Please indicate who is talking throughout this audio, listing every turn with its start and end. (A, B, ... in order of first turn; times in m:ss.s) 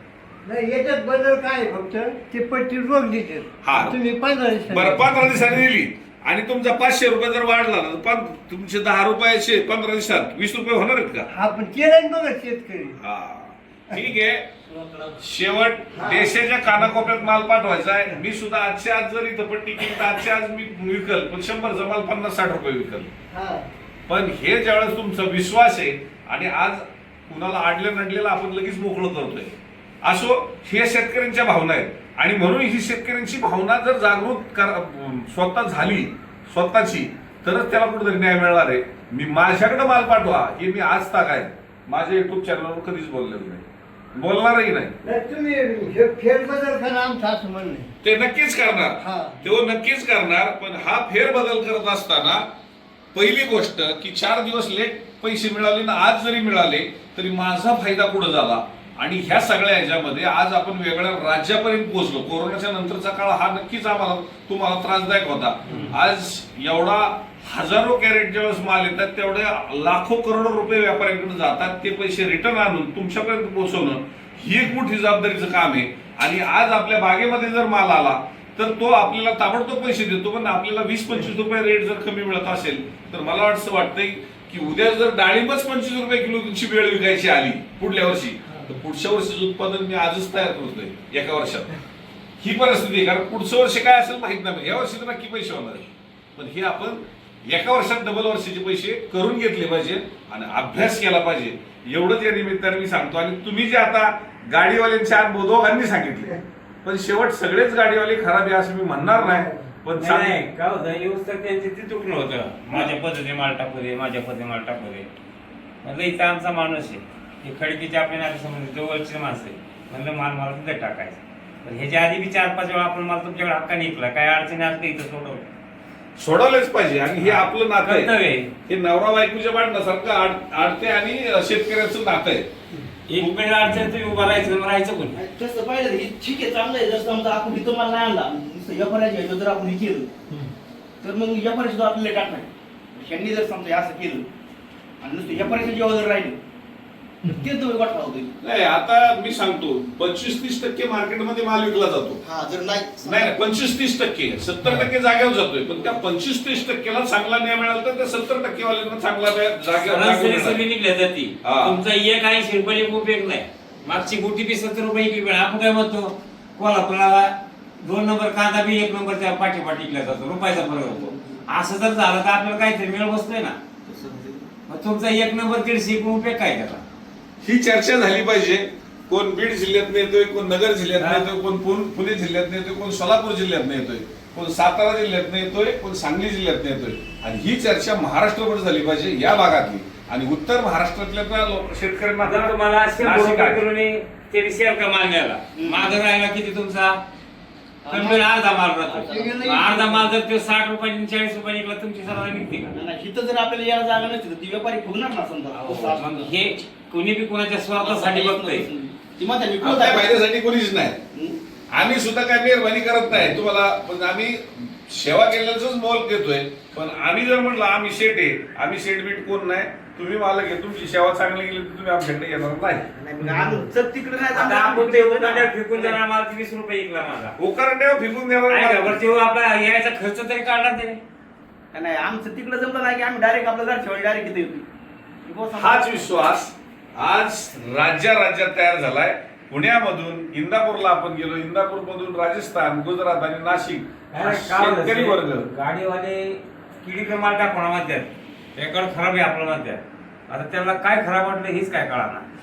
0:00.4-0:05.5 A
0:03.6-0:04.0 B
0:04.7-0:11.3 B
0:11.3-0:13.0 A
0:13.0-0:14.5 B
0:15.2-0:23.1 B
0:15.9-0:16.4 A
0:23.3-0:23.6 A
0:24.1-0:44.9 B
0:45.0-0:47.9 A
0:48.0-0:52.4 B
0:49.0-0:49.4 A
0:53.1-1:31.7 B
1:05.7-1:06.0 C
1:32.4-1:50.4 B
1:49.1-1:49.6 A
1:50.0-1:55.1 C
1:55.8-2:05.4 C
2:06.2-2:08.1 B
2:07.2-2:08.5 C
2:08.6-2:12.5 B
2:13.1-2:15.2 C
2:15.1-2:20.1 D
2:21.0-2:24.2 D
2:25.0-2:26.4 D
2:27.2-2:28.3 D
2:28.4-2:32.2 B
2:32.2-2:33.3 D
2:33.0-2:40.6 B
2:39.8-2:53.6 C
2:41.4-2:41.8 B
2:50.6-2:51.4 D
2:53.8-2:54.5 D
2:54.7-2:56.8 C
2:57.4-3:13.6 B
3:01.0-3:01.3 C
3:12.2-3:17.0 C
3:15.5-3:16.0 D
3:17.8-3:18.3 D
3:17.9-3:22.8 C
3:18.8-3:19.7 D
3:19.5-3:20.0 A
3:22.7-3:26.5 D
3:25.5-3:28.7 C
3:27.8-3:30.2 D
3:29.6-3:31.0 B
3:31.1-3:31.4 D
3:31.7-3:42.8 B
3:42.9-3:46.0 D
3:43.2-3:43.6 A
3:44.3-3:47.3 C
3:47.4-3:49.0 B
3:48.5-3:51.0 C
3:51.7-3:54.6 D
3:55.2-3:56.1 D
3:55.5-4:05.5 B
4:04.1-4:12.2 C